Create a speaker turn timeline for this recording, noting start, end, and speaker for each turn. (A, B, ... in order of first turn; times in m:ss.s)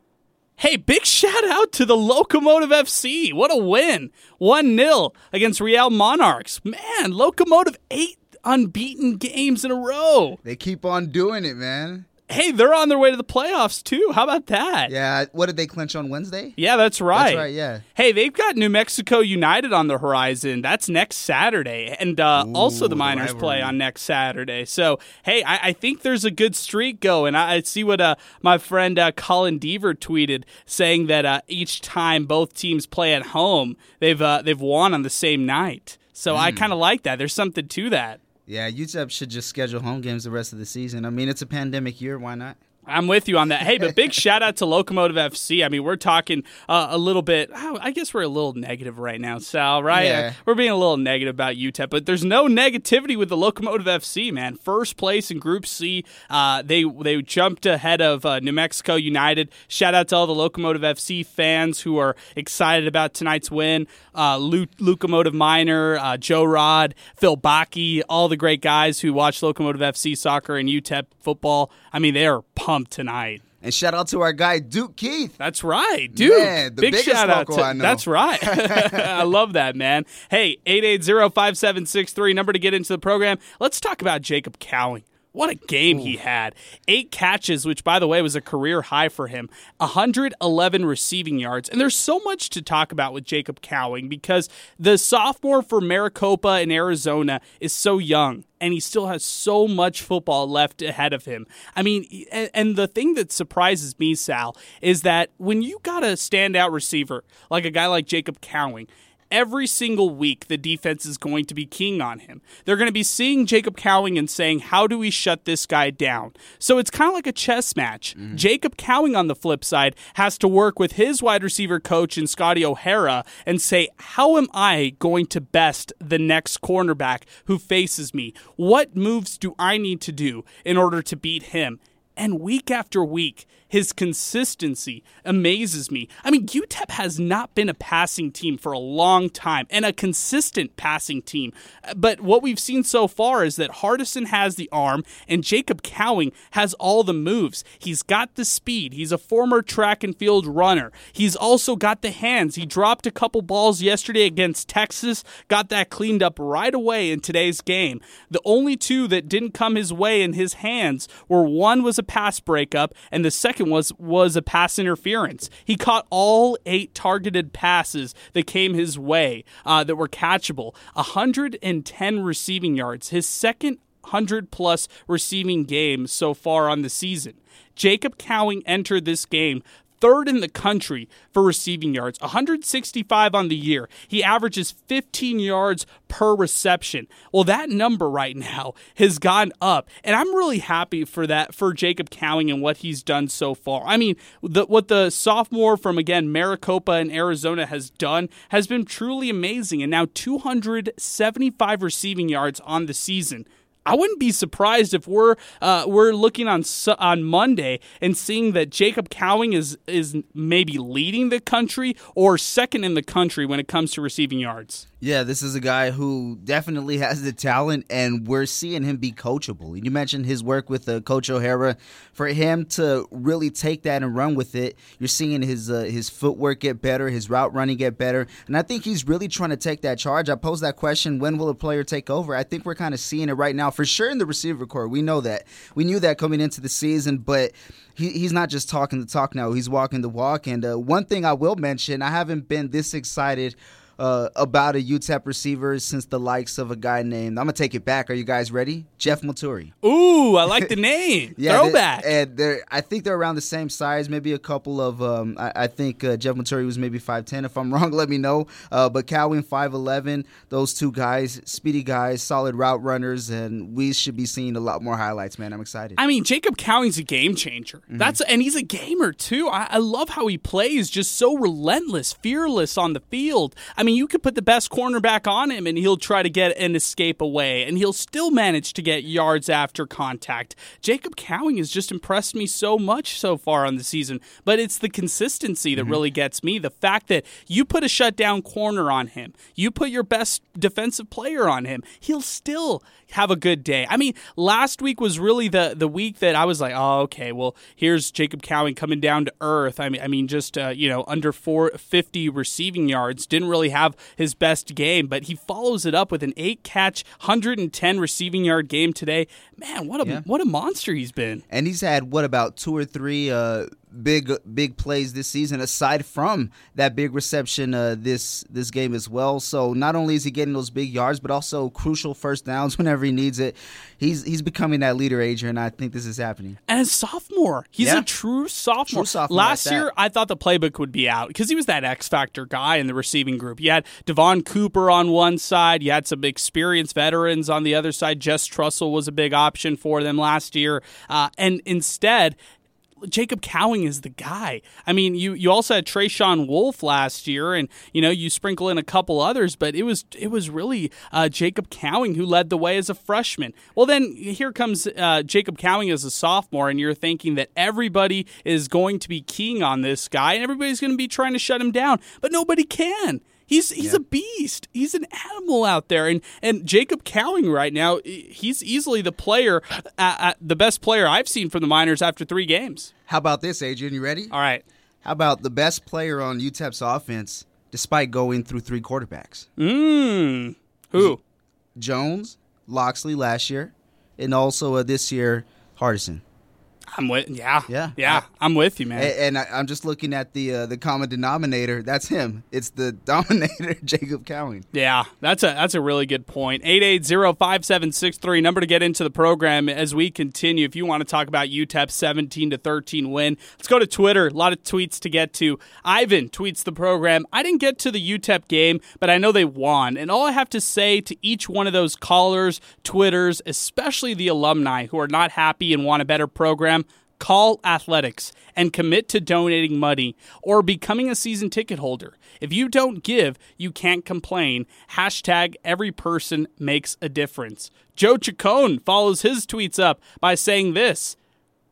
0:00.6-0:10.4 A
0:10.4-0:12.1 B
0:12.3-0:14.9 A
0:14.9-0:16.6 B
0:16.6-0:38.2 A
0:17.1-0:17.8 B
0:22.4-0:23.8 B
0:36.3-0:36.7 B
0:38.5-0:42.6 B
0:42.9-1:13.4 A
0:49.9-0:50.4 B
1:13.6-1:15.3 B
1:15.4-3:34.8 A
1:16.1-1:19.2 B
1:25.9-1:26.2 B
1:58.2-1:58.4 B
3:35.0-4:09.7 B
4:09.8-4:12.1 A
4:11.4-4:26.0 B
4:26.0-5:11.4 A
4:27.9-4:28.2 B
4:45.8-4:46.0 B
5:11.5-5:26.6 B
5:26.7-5:42.4 A
5:27.8-5:28.0 B
5:28.9-5:29.9 B
5:43.0-6:12.9 A
6:13.1-6:14.3 B
6:14.3-6:14.6 A
6:15.0-6:19.5 B
6:19.6-6:21.2 A
6:21.8-6:26.2 B
6:26.9-6:29.1 A
6:27.7-6:28.2 B
6:28.9-6:34.6 B
6:34.7-7:11.2 A